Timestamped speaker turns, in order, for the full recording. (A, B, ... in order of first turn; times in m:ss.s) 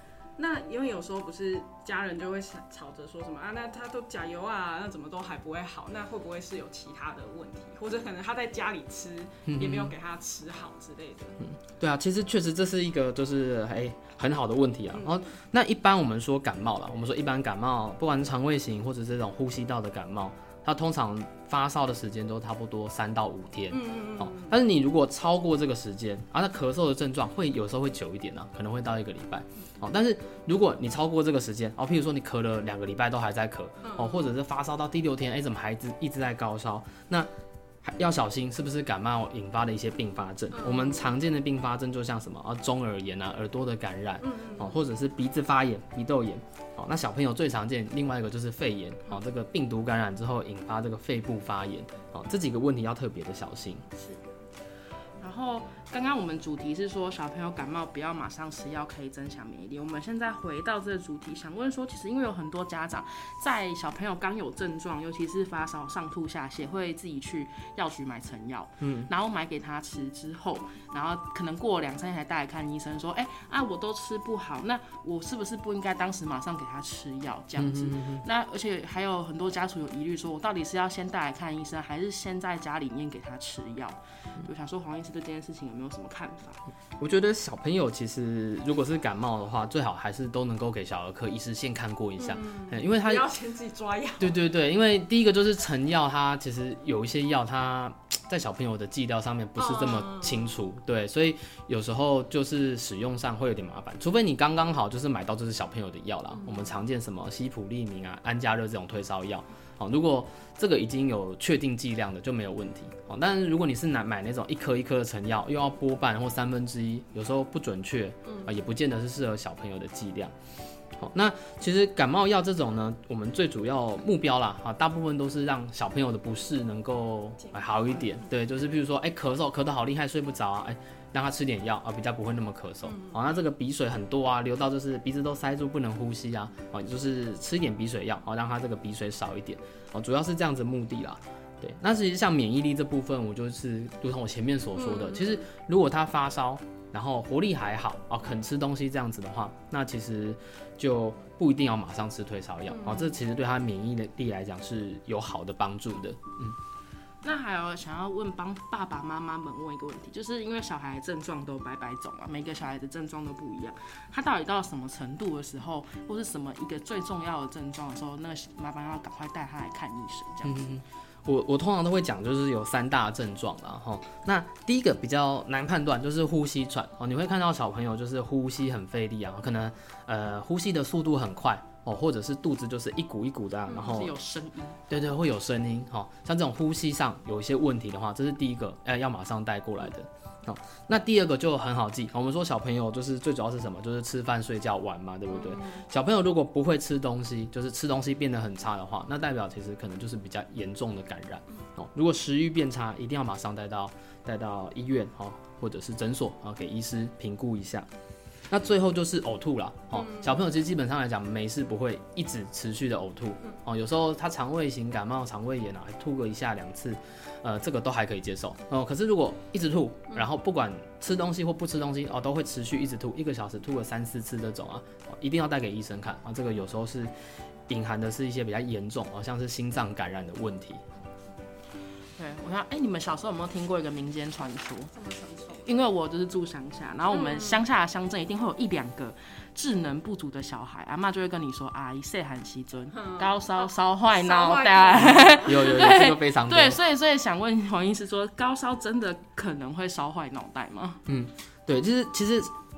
0:00.4-0:11.4 A
0:09.4-0:10.0 B
0:11.4-0:37.3 B
0:14.9-0:15.3 A
0:23.7-0:24.6 A
0:33.8-0:34.3 A
0:37.8-0:53.9 B
0:40.5-0:41.0 A
0:44.2-0:44.8 A
0:55.2-1:26.6 C
1:08.8-1:09.1 B
1:17.6-1:18.2 B
1:27.0-1:33.3 B
1:32.2-1:34.4 A
1:34.2-2:00.3 B
1:39.6-1:40.5 A
1:46.3-1:46.8 A
1:58.2-1:58.6 A
2:01.0-2:36.6 B
2:07.4-2:08.3 A
2:12.8-2:13.4 A
2:24.8-2:25.4 A
2:32.7-2:33.2 A
2:37.2-2:50.6 C
2:50.4-3:04.1 B
3:03.8-3:04.8 C
3:04.9-3:27.9 B
3:15.3-3:15.8 A
3:28.5-3:47.1 B
3:29.9-3:30.4 A
3:47.7-3:50.8 B
3:52.2-3:54.9 C
3:54.9-3:55.7 A
3:55.5-4:11.0 C
3:57.1-3:57.6 A
4:02.9-4:05.7 A
4:05.5-4:06.8 B
4:11.1-4:12.5 B